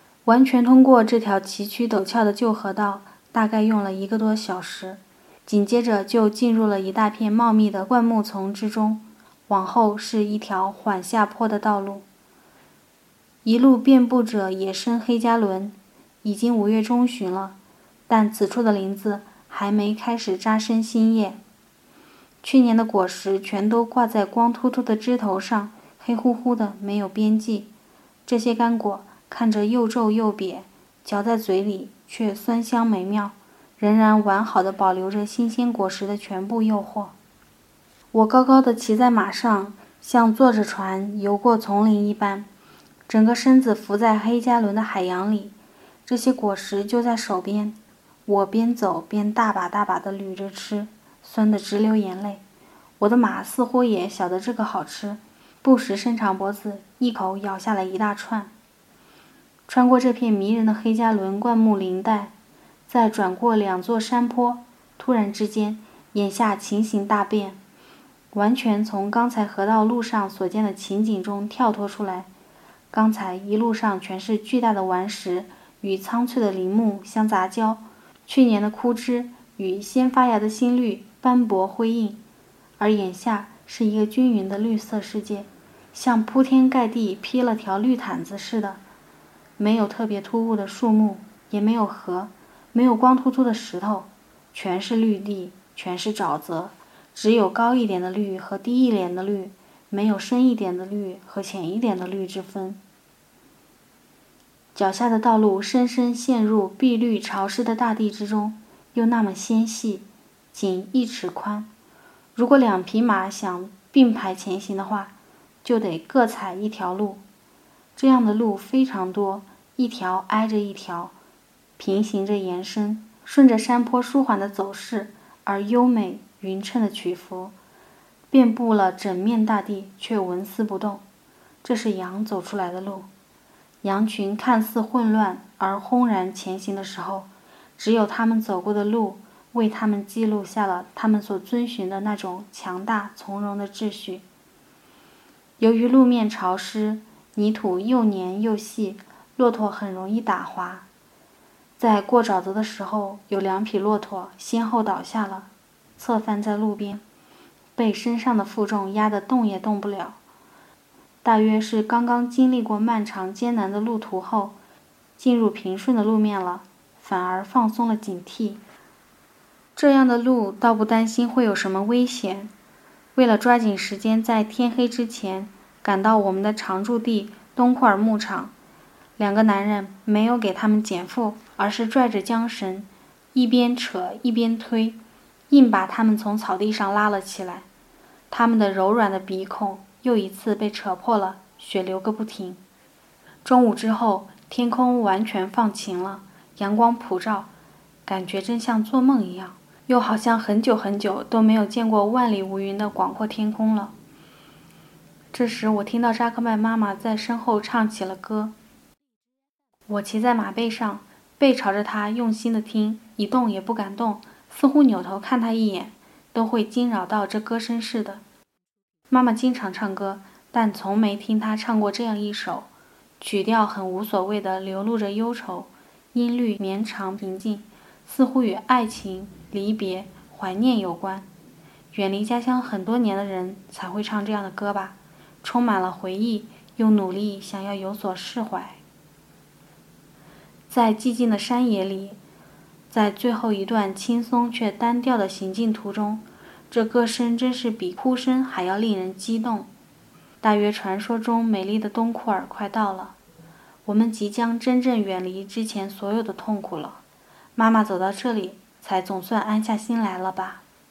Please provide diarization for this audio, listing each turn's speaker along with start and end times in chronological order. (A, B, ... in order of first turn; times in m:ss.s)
0:00.2-0:12.1 A
0:13.4-0:17.6 A
0:18.1-0:21.4 A
0:22.4-0:27.7 A
0:28.3-0:37.1 A
0:38.1-0:42.5 A
0:43.1-0:45.6 A
0:46.1-0:52.4 A
0:53.0-0:58.5 A
0:59.7-1:02.3 A
1:02.9-1:07.6 A
1:08.3-1:12.3 A
1:12.9-1:22.2 A
1:22.8-1:28.8 A
1:29.6-1:42.8 A
1:44.8-1:51.7 A
1:52.4-1:55.1 A
1:55.6-1:57.2 A
1:58.0-2:01.1 A
2:01.8-2:07.6 A
2:08.3-2:11.0 A
2:11.6-2:13.1 A
2:13.8-2:24.2 A
2:25.6-2:30.9 A
2:31.8-2:37.0 A
2:37.8-2:40.2 A
2:41.2-2:44.6 A
2:45.2-2:48.6 A
2:49.8-2:52.5 A
2:53.2-2:58.5 A
2:59.2-3:05.0 A
3:05.5-3:07.7 A
3:08.3-3:12.6 A
3:13.4-3:17.5 A
3:18.1-3:23.9 A
3:25.3-3:28.5 A
3:29.9-3:38.2 A
3:39.1-3:42.7 A
3:43.2-3:51.3 A
3:51.9-3:58.8 A
4:00.7-4:02.2 A
4:02.9-4:09.7 A
4:10.4-4:13.2 A
4:13.9-4:17.0 A
4:17.6-4:20.6 A